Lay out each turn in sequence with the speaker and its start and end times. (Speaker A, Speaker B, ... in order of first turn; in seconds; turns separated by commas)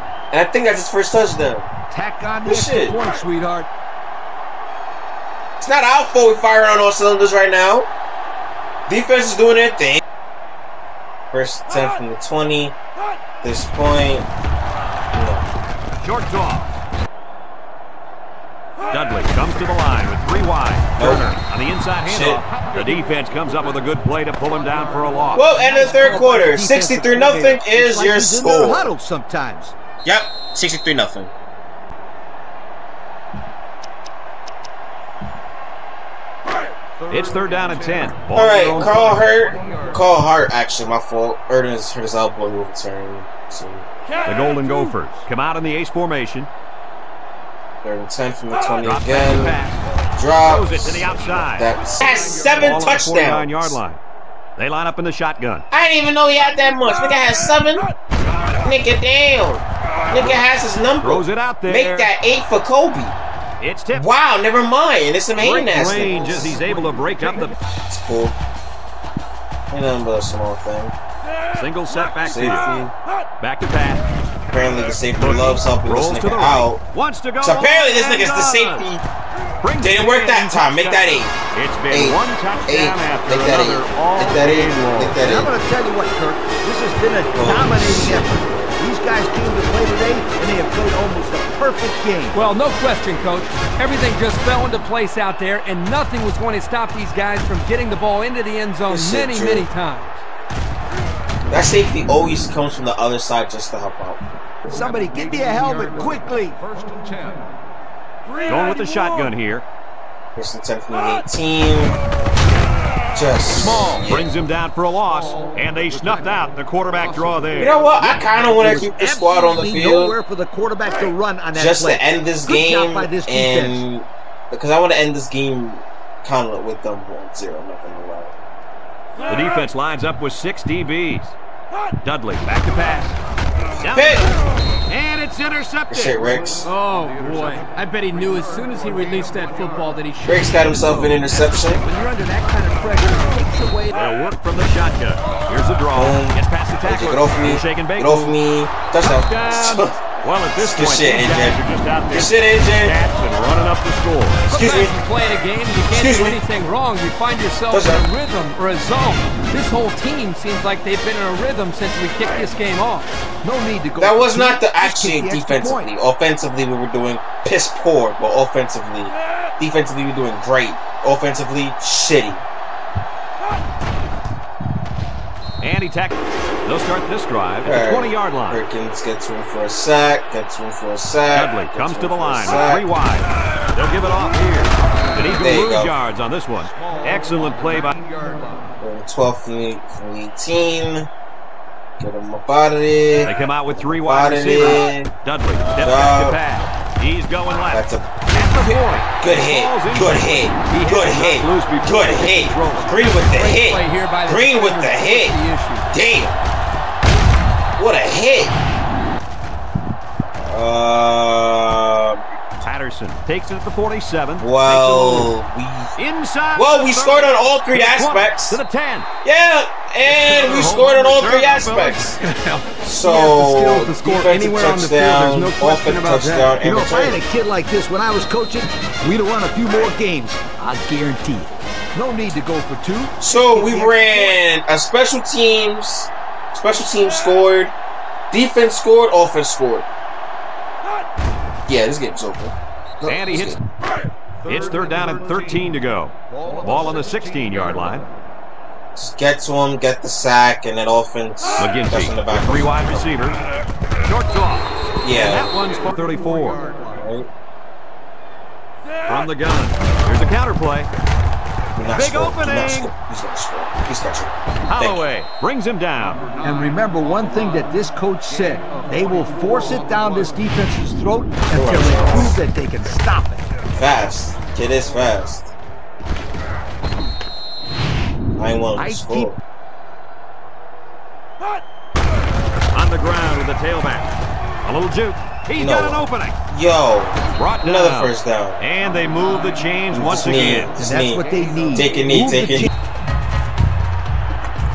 Speaker A: 0.3-1.7, Speaker B: 1.9-3.7, Speaker A: 2.4-3.0, Speaker A: 5.6-7.9, Speaker A: 8.9-10.0, Speaker A: 11.3-12.8, Speaker A: 13.4-14.3, Speaker A: 15.1-15.4, Speaker C: 16.0-16.7, Speaker C: 18.9-25.5, Speaker A: 21.0-21.3, Speaker A: 22.0-22.4, Speaker A: 25.3-28.9, Speaker B: 25.6-29.7, Speaker A: 30.0-31.3, Speaker C: 37.1-39.2, Speaker A: 38.3-43.9, Speaker C: 44.2-46.5, Speaker A: 47.8-49.6, Speaker C: 48.8-49.8, Speaker A: 50.1-53.8, Speaker C: 50.4-51.7, Speaker C: 52.4-54.0, Speaker C: 54.6-55.6, Speaker A: 55.7-57.9, Speaker A: 58.6-63.2, Speaker C: 61.0-62.1, Speaker C: 63.6-64.1, Speaker A: 63.9-66.6, Speaker C: 65.4-67.6, Speaker A: 67.9-68.4, Speaker A: 69.7-70.9, Speaker C: 71.5-72.7, Speaker A: 72.2-72.9, Speaker C: 73.4-74.1, Speaker A: 74.5-76.8, Speaker C: 75.0-78.9, Speaker A: 77.4-79.0, Speaker C: 79.6-85.2, Speaker A: 79.8-81.3, Speaker A: 81.9-85.5, Speaker B: 85.2-92.4, Speaker A: 87.3-88.3, Speaker D: 92.3-100.2, Speaker A: 98.9-99.7, Speaker A: 101.5-104.2, Speaker B: 104.7-106.7, Speaker C: 108.5-109.7, Speaker A: 110.3-112.0, Speaker A: 113.1-114.3, Speaker C: 113.5-117.8, Speaker A: 117.6-120.2, Speaker B: 118.0-123.8, Speaker A: 121.5-128.3, Speaker C: 129.2-131.3, Speaker C: 132.0-133.2, Speaker A: 133.8-134.3, Speaker C: 133.8-134.4, Speaker C: 134.9-136.2, Speaker A: 135.9-136.7, Speaker D: 136.6-144.0, Speaker A: 140.2-141.8, Speaker C: 143.9-148.3, Speaker A: 145.9-151.6, Speaker C: 149.0-154.4, Speaker A: 152.1-152.9, Speaker A: 154.4-154.9, Speaker D: 154.5-163.1, Speaker A: 155.9-156.4, Speaker A: 157.7-158.0, Speaker B: 163.4-165.9, Speaker A: 164.0-172.4, Speaker C: 175.6-178.6, Speaker A: 177.6-182.9, Speaker C: 181.3-188.0, Speaker A: 185.4-185.9, Speaker B: 186.7-188.6, Speaker A: 188.8-191.1, Speaker A: 192.0-196.4, Speaker C: 193.2-202.9, Speaker A: 197.7-205.3, Speaker D: 203.3-205.9, Speaker A: 205.9-206.4, Speaker A: 207.8-208.6, Speaker A: 210.4-212.3, Speaker C: 212.6-215.3, Speaker A: 214.4-215.9, Speaker C: 216.0-219.1, Speaker A: 216.5-218.6, Speaker A: 219.2-222.2, Speaker C: 220.0-222.1, Speaker D: 222.1-226.5, Speaker A: 222.8-227.2, Speaker B: 226.6-234.4, Speaker A: 233.2-237.7, Speaker A: 238.3-239.9, Speaker A: 241.7-243.6, Speaker C: 243.0-243.6, Speaker C: 244.4-248.1, Speaker B: 244.7-245.2, Speaker B: 246.3-248.0, Speaker A: 248.9-253.2, Speaker C: 251.6-253.4, Speaker C: 254.0-256.6, Speaker A: 255.0-255.6, Speaker B: 255.8-256.9, Speaker A: 256.9-257.3, Speaker C: 259.1-260.9, Speaker A: 261.8-265.1, Speaker C: 261.9-262.9, Speaker C: 264.7-266.2, Speaker B: 266.4-273.5, Speaker A: 271.5-272.4, Speaker A: 273.7-275.5, Speaker A: 278.4-279.4, Speaker B: 278.8-279.3, Speaker C: 282.7-286.4, Speaker A: 285.6-288.6, Speaker C: 287.4-290.7, Speaker A: 289.9-292.7, Speaker B: 290.8-292.7, Speaker C: 292.1-292.6